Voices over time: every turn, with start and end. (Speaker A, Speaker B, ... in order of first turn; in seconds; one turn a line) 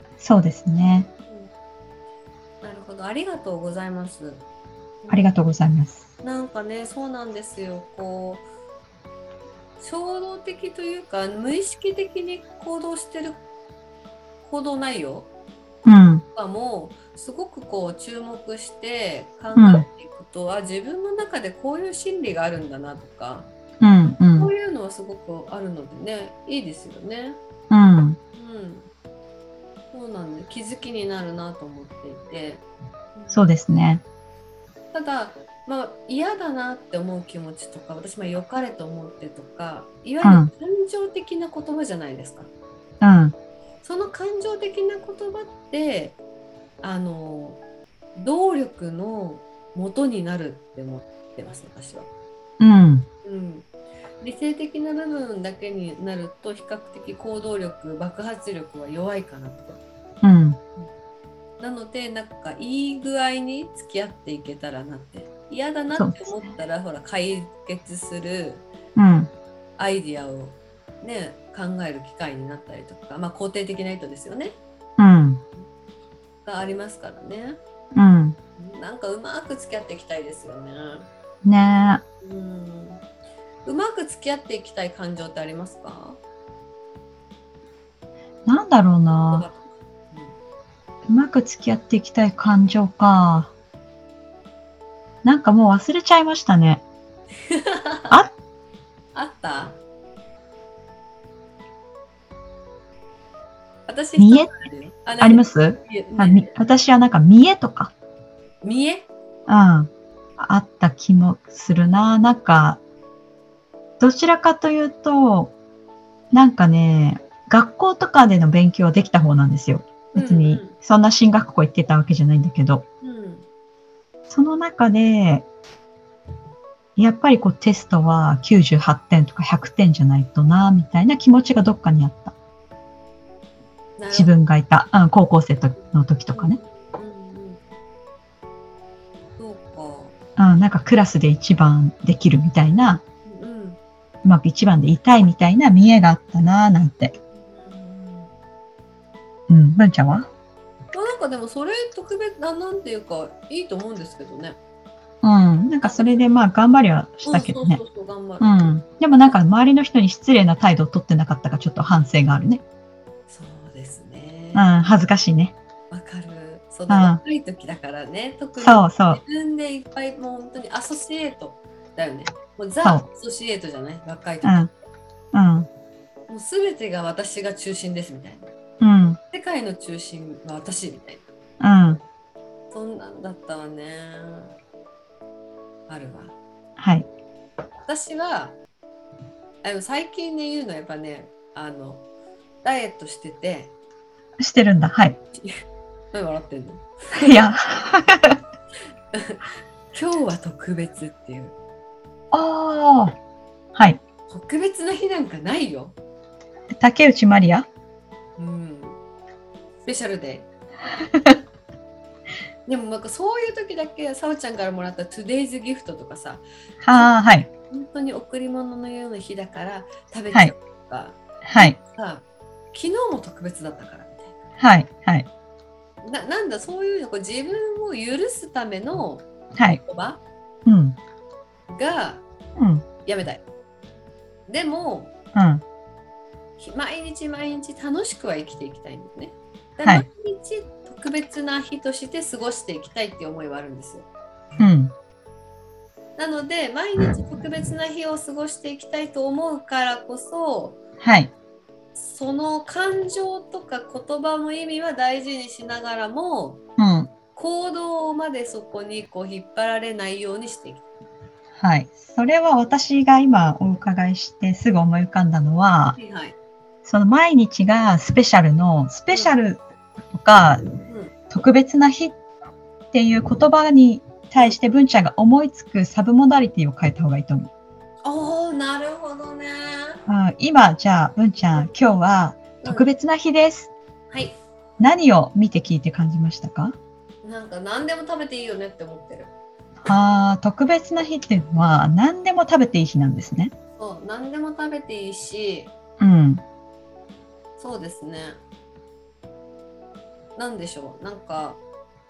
Speaker A: 0.2-1.1
Speaker B: 2.6-4.4
Speaker B: 5.0-5.3
Speaker A: 5.1-6.0
Speaker B: 6.2-8.4
Speaker B: 9.8-13.4
Speaker B: 14.4-15.3
Speaker A: 15.8-16.2
Speaker B: 16.3-23.5
Speaker A: 19.5-19.9
Speaker A: 23.8-24.5
Speaker B: 24.3-27.4
Speaker A: 27.7-28.2
Speaker B: 28.4-28.9
Speaker B: 29.9-32.6
Speaker B: 33.1-33.5
Speaker A: 33.3-34.0
Speaker B: 34.9-42.5
Speaker A: 40.2-40.5
Speaker A: 43.0-43.3
Speaker B: 43.8-46.2
Speaker B: 46.8-47.6
Speaker B: 48.1-52.1
Speaker A: 52.6-53.1
Speaker B: 53.2-53.7
Speaker B: 54.2-59.8
Speaker A: 60.2-60.6
Speaker B: 61.6-68.7
Speaker A: 66.0-66.4
Speaker A: 69.0-69.3
Speaker B: 69.8-74.6
Speaker A: 75.0-75.4
Speaker B: 76.4-77.6
Speaker A: 77.9-78.4
Speaker B: 78.6-81.1
Speaker A: 81.4-82.0
Speaker B: 82.2-83.0
Speaker B: 83.6-86.2
Speaker A: 88.5-89.5
Speaker B: 89.1-90.3
Speaker A: 91.1-93.5
Speaker A: 95.2-96.8
Speaker B: 97.5-98.2
Speaker B: 99.1-99.8
Speaker B: 103.9-106.5
Speaker A: 104.2-104.5
Speaker A: 105.2-107.9
Speaker B: 108.6-109.1
Speaker A: 109.5-112.8
Speaker A: 114.0-115.5
Speaker A: 116.3-122.8
Speaker B: 120.1-120.8
Speaker B: 123.0-123.5
Speaker A: 124.3-125.5
Speaker A: 127.0-132.3
Speaker B: 134.0-134.3
Speaker A: 134.1-136.6
Speaker B: 136.3-137.6
Speaker B: 139.4-140.1
Speaker A: 140.4-143.0
Speaker B: 143.2-143.8
Speaker A: 144.2-147.1
Speaker B: 147.1-148.3
Speaker A: 149.5-150.3
Speaker B: 150.9-154.6
Speaker A: 155.2-157.8
Speaker B: 155.8-156.3
Speaker B: 157.2-158.7
Speaker A: 158.4-162.6
Speaker B: 163.3-164.7
Speaker A: 164.5-165.5
Speaker B: 165.9-174.7
Speaker A: 166.9-167.2
Speaker A: 168.6-169.2
Speaker A: 174.4-174.7
Speaker A: 175.3-175.7
Speaker B: 176.3-178.5
Speaker A: 178.8-179.2
Speaker B: 179.3-181.2
Speaker A: 181.6-182.0
Speaker B: 182.7-184.5
Speaker B: 185.9-186.3
Speaker A: 186.8-187.1
Speaker B: 187.8-188.6
Speaker B: 189.6-192.0
Speaker B: 192.6-193.7
Speaker A: 194.4-195.2
Speaker B: 195.3-195.6
Speaker B: 196.1-197.5
Speaker A: 197.2-198.4
Speaker B: 199.1-201.6
Speaker A: 202.3-203.2
Speaker A: 203.7-204.0
Speaker B: 204.3-205.9
Speaker A: 206.7-207.7
Speaker B: 208.4-209.0
Speaker B: 209.8-210.5
Speaker B: 212.7-217.1
Speaker A: 216.8-217.5
Speaker B: 217.7-224.3
Speaker A: 221.4-221.8
Speaker A: 224.6-225.3
Speaker B: 226.0-230.2
Speaker A: 229.5-229.8
Speaker A: 230.7-231.0
Speaker B: 231.7-232.2
Speaker A: 232.6-232.8
Speaker B: 233.0-233.4
Speaker B: 234.5-235.1
Speaker A: 235.3-235.6
Speaker B: 236.6-244.1
Speaker A: 244.6-244.9
Speaker B: 246.2-250.8
Speaker A: 251.0-251.3
Speaker B: 251.9-256.6
Speaker A: 256.8-257.1
Speaker B: 257.3-260.8
Speaker A: 261.6-266.0
Speaker B: 265.9-266.4
Speaker A: 266.8-270.6
Speaker B: 270.9-271.1
Speaker A: 271.3-272.2
Speaker A: 272.9-277.5
Speaker B: 274.4-274.6
Speaker B: 278.0-280.0
Speaker A: 280.1-283.7
Speaker B: 282.6-282.9
Speaker B: 284.1-284.4
Speaker A: 284.8-286.8
Speaker B: 287.2-289.3
Speaker A: 289.8-293.5
Speaker B: 293.8-295.7
Speaker A: 296.0-296.4
Speaker B: 297.6-298.4
Speaker B: 300.4-301.6